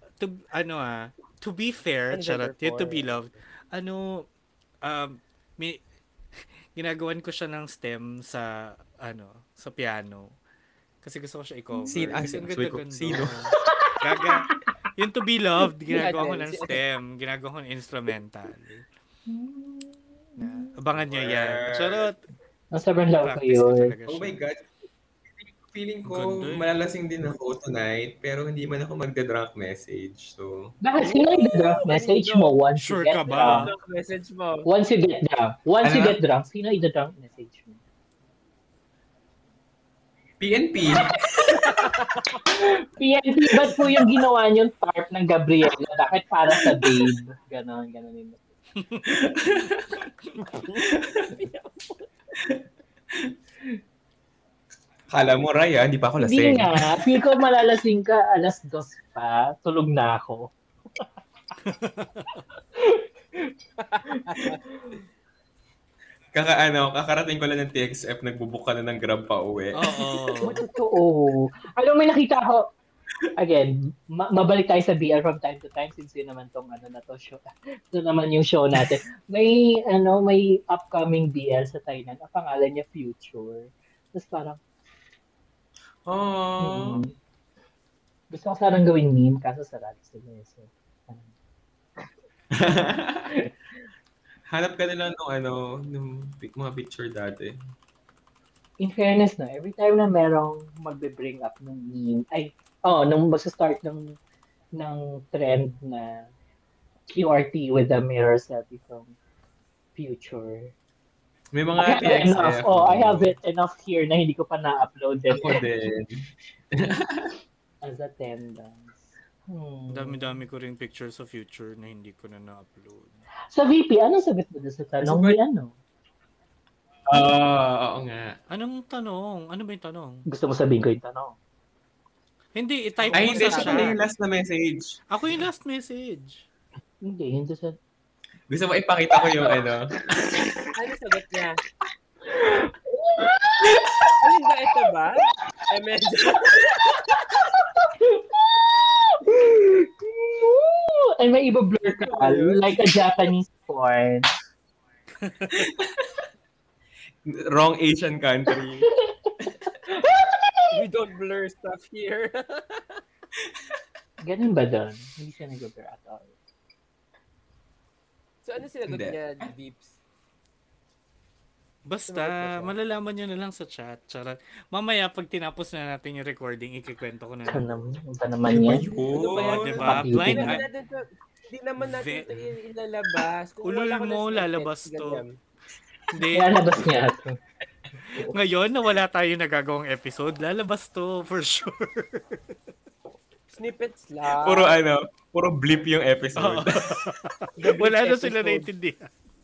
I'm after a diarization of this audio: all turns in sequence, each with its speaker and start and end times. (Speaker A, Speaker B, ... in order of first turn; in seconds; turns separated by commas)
Speaker A: 0.2-4.3, Speaker B: 2.1-3.3, Speaker A: 4.8-5.8, Speaker A: 6.8-10.3, Speaker A: 11.0-18.8, Speaker C: 11.9-13.5, Speaker D: 13.7-14.5, Speaker B: 15.9-16.8, Speaker D: 19.3-20.8, Speaker A: 20.4-22.2, Speaker C: 21.0-22.1, Speaker D: 22.7-23.9, Speaker A: 23.2-24.4, Speaker C: 24.1-24.7, Speaker C: 25.4-30.8, Speaker A: 26.1-26.7, Speaker D: 30.8-33.7, Speaker B: 31.0-32.5, Speaker A: 32.8-33.7, Speaker B: 33.3-34.7, Speaker D: 34.7-37.8, Speaker C: 35.8-36.2, Speaker C: 40.4-41.9, Speaker B: 41.6-42.4, Speaker D: 42.5-48.4, Speaker C: 43.6-44.2, Speaker C: 46.7-47.0, Speaker C: 49.0-50.1, Speaker B: 50.4-52.1, Speaker C: 50.8-51.2, Speaker C: 55.1-57.0, Speaker D: 56.2-60.5, Speaker A: 61.7-62.3, Speaker D: 62.8-63.0, Speaker B: 63.8-64.6, Speaker D: 64.1-64.9, Speaker C: 66.3-70.0, Speaker A: 69.8-70.6, Speaker D: 70.4-72.7, Speaker B: 70.4-70.8, Speaker D: 73.4-84.6, Speaker C: 86.1-87.1, Speaker D: 86.6-87.1, Speaker D: 88.3-91.3, Speaker C: 92.6-93.4, Speaker C: 94.5-97.6, Speaker D: 98.8-104.2, Speaker D: 104.8-106.3, Speaker D: 107.1-109.1, Speaker D: 110.0-110.7, Speaker C: 111.5-113.3, Speaker D: 111.8-115.6, Speaker C: 115.3-116.3, Speaker C: 116.8-117.3, Speaker D: 117.8-120.3, Speaker A: 119.9-123.2, Speaker D: 123.5-125.7, Speaker C: 125.0-125.4, Speaker C: 127.1-128.4, Speaker A: 128.5-130.2, Speaker D: 130.3-131.4, Speaker A: 132.6-133.9, Speaker B: 133.0-134.0, Speaker C: 133.1-135.0, Speaker A: 135.1-136.4, Speaker D: 137.0-137.8, Speaker C: 138.5-140.7, Speaker B: 140.8-141.6, Speaker D: 142.3-143.8, Speaker C: 143.8-144.1, Speaker B: 144.2-146.8, Speaker D: 147.5-154.3, Speaker B: 151.8-152.9, Speaker C: 155.5-156.1, Speaker C: 157.3-158.9, Speaker D: 159.0-159.3, Speaker D: 159.9-160.7, Speaker B: 160.7-163.0, Speaker D: 164.2-166.3, Speaker B: 168.4-170.0, Speaker C: 168.9-169.2, Speaker A: 171.9-177.8, Speaker B: 172.1-172.7, Speaker D: 177.5-178.8, Speaker C: 178.5-180.0, Speaker B: 178.9-185.4, Speaker A: 179.3-180.7, Speaker D: 179.8-180.6, Speaker A: 181.8-182.3, Speaker A: 183.6-185.2, Speaker A: 186.2-186.6, Speaker D: 186.2-187.4, Speaker D: 188.1-188.3, Speaker A: 188.3-192.6, Speaker B: 193.5-194.8, Speaker C: 194.3-197.1, Speaker A: 196.4-199.1, Speaker B: 197.6-198.7